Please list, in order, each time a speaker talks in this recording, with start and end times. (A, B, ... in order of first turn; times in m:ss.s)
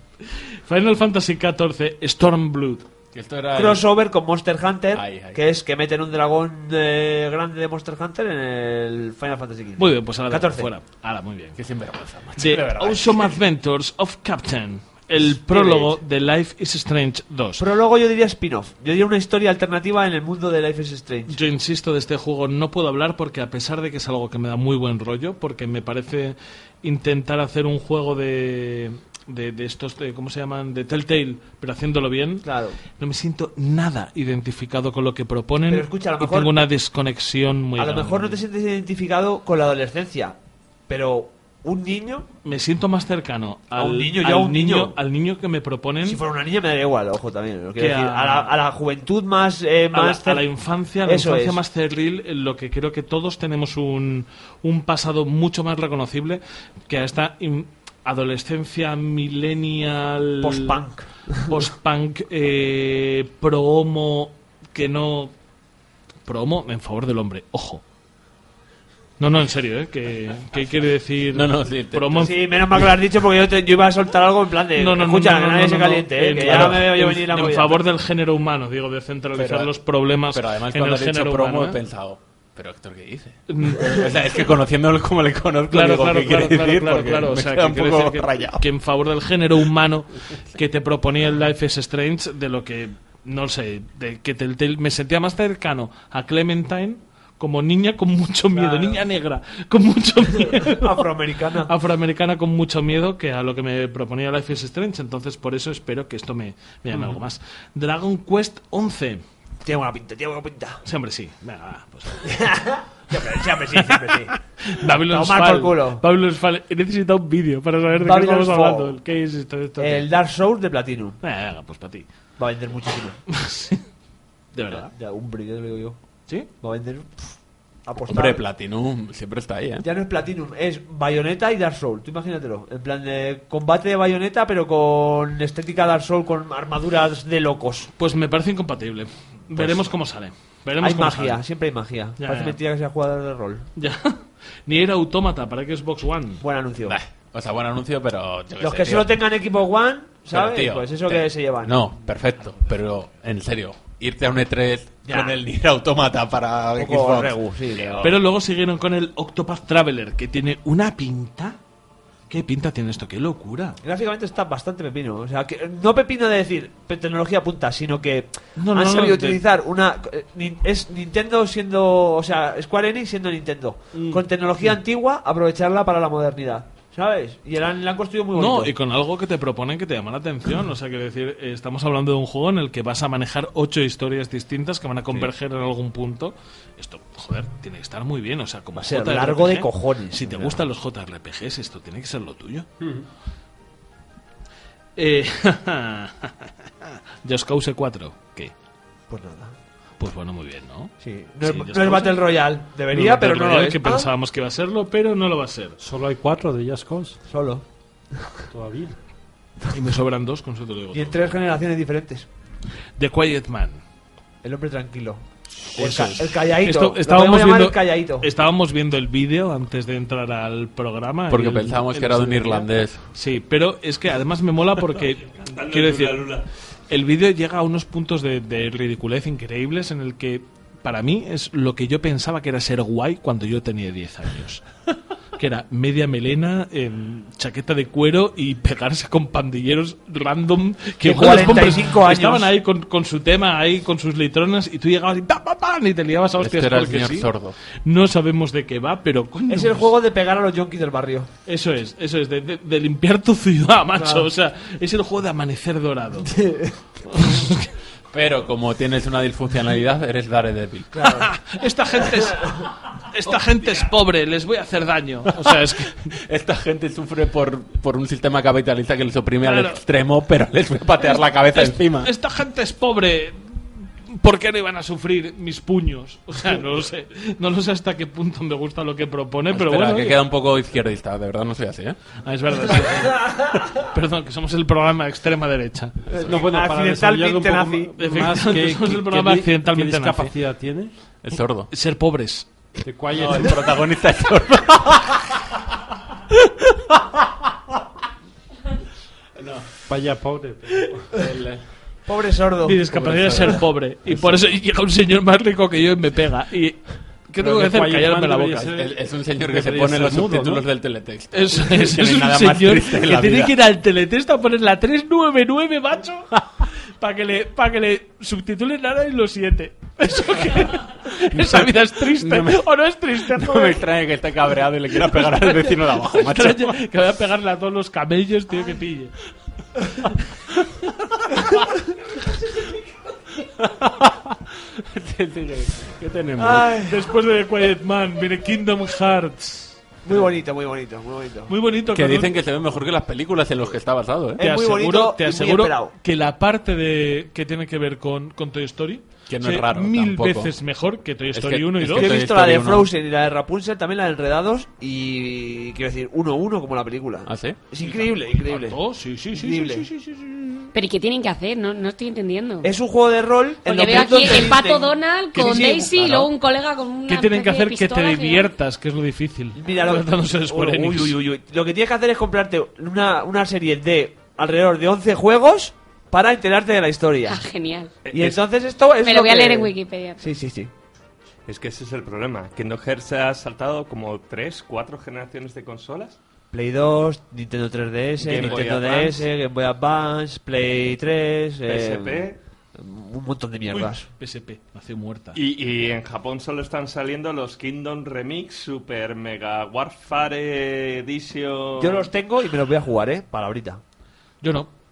0:00.3-0:02.8 A
0:03.1-0:03.8 B
0:03.5-0:10.7 C
0:04.9-0:05.4 B
0:09.8-0:11.6 A
0:11.6-0:13.2 B
0:12.4-0:17.6 A
0:15.3-0:16.0 C
0:17.6-0:21.4 C
0:21.3-0:38.4 A
0:32.4-0:32.8 C
0:35.7-0:36.6 C
0:37.8-0:40.4 C
0:40.9-0:42.3 C
0:42.4-0:46.2 A
0:43.7-0:45.0 C
0:46.0-0:50.4 C
0:47.8-0:48.5 A
0:49.9-1:00.8 A
0:51.0-0:51.6 C
1:00.4-1:01.5 C
1:01.4-1:05.3 A
1:06.2-1:07.8 A
1:09.2-1:12.4 A
1:10.5-1:12.9 B
1:12.2-1:17.8 C
1:14.8-1:21.8 A
1:16.4-1:16.9 B
1:19.3-1:19.7 B
1:20.3-1:28.6 B
1:23.5-1:24.0 A
1:25.7-1:41.1 A
1:38.5-1:39.0 C
1:40.4-1:41.7 C
1:41.6-1:49.2 A
1:49.6-1:50.8 C
1:50.8-1:52.4 A
1:52.2-1:54.4 C
1:53.7-2:00.1 A
1:54.9-1:56.0 C
1:57.9-1:59.0 C
1:59.8-2:01.2 C
2:01.2-2:02.1 A
2:02.4-2:03.2 C
2:03.3-2:03.8 A
2:04.5-2:04.9 A
2:04.7-2:06.0 C
2:06.6-2:08.4 C
2:08.1-2:09.9 B
2:09.8-2:17.9 C
2:18.0-2:21.4 A
2:19.5-2:19.9 B
2:20.8-2:23.7 C
2:22.2-2:22.6 A
2:23.8-2:26.4 A
2:26.4-2:27.0 C
2:26.8-2:29.1 B
2:28.6-2:31.8 C
2:30.3-2:38.2 B
2:35.1-2:35.4 C
2:36.8-2:38.1 C
2:38.0-2:41.6 A
2:42.3-2:43.8 A
2:43.8-2:58.7 C
2:48.6-2:49.4 A
2:53.9-2:54.2 A
2:58.3-3:12.7 A
3:08.8-3:10.6 C
3:12.8-3:13.0 D
3:15.0-3:18.5 A
3:19.1-3:19.5 C
3:20.0-3:22.3 A
3:21.0-3:24.1 C
3:22.9-3:25.8 A
3:25.8-3:27.2 D
3:27.3-3:27.6 C
3:28.1-3:28.4 C
3:28.5-3:29.0 D
3:29.7-3:31.4 A
3:30.9-3:32.3 C
3:33.0-3:33.8 A
3:34.4-3:38.3 C
3:35.7-3:46.3 A
3:41.3-3:43.0 B
3:45.4-3:46.5 E
3:46.9-3:54.6 A
3:55.4-4:07.3 A
4:01.0-4:02.5 C
4:06.4-4:07.6 B
4:07.8-4:09.9 A
4:09.5-4:11.3 C
4:11.4-4:16.3 A
4:14.0-4:14.3 C
4:16.3-4:16.8 C
4:17.1-4:17.7 A
4:18.1-4:21.1 B
4:20.9-4:21.3 C
4:21.0-4:26.2 A
4:25.4-4:32.1 B
4:29.4-4:29.8 A
4:31.5-4:40.2 A
4:39.5-4:42.0 B
4:42.2-4:46.1 A
4:46.1-4:50.9 D
4:46.2-4:48.2 C
4:48.0-4:50.3 A
4:51.2-4:51.7 B
4:51.7-4:52.5 A
4:52.8-4:53.7 D
4:53.1-4:57.8 B
4:59.4-4:59.7 B
4:59.8-5:01.1 D
5:01.1-5:01.6 B
5:02.0-5:02.8 C
5:02.6-5:08.7 A
5:02.9-5:04.5 B
5:07.4-5:10.6 D
5:08.7-5:13.6 B
5:11.3-5:23.8 A
5:21.1-5:22.6 B
5:23.2-5:26.8 B
5:25.0-5:29.1 A
5:33.4-5:35.9 B
5:36.0-5:39.8 A
5:36.4-5:37.1 C
5:40.0-5:41.5 C
5:41.5-5:42.3 A
5:41.9-5:44.4 B
5:44.4-5:45.9 C
5:44.4-5:52.1 A
5:49.3-5:50.5 B
5:51.3-5:52.9 B
5:51.9-5:58.8 C
5:57.2-5:57.6 B
5:57.8-6:00.7 A
5:59.3-5:59.9 C
6:00.7-6:02.7 F
6:02.6-6:06.3 C
6:03.6-6:08.5 F
6:07.1-6:11.2 A
6:09.5-6:17.4 C
6:17.3-6:17.9 F
6:18.0-6:18.4 E
6:18.1-6:20.7 C
6:19.0-6:20.3 F
6:21.5-6:26.2 E
6:26.5-6:34.1 C
6:28.2-6:29.3 E
6:28.3-6:28.6 A
6:31.6-6:32.4 E
6:33.7-6:35.4 A
6:35.3-6:42.1 E
6:41.8-6:43.8 C
6:44.4-6:44.7 A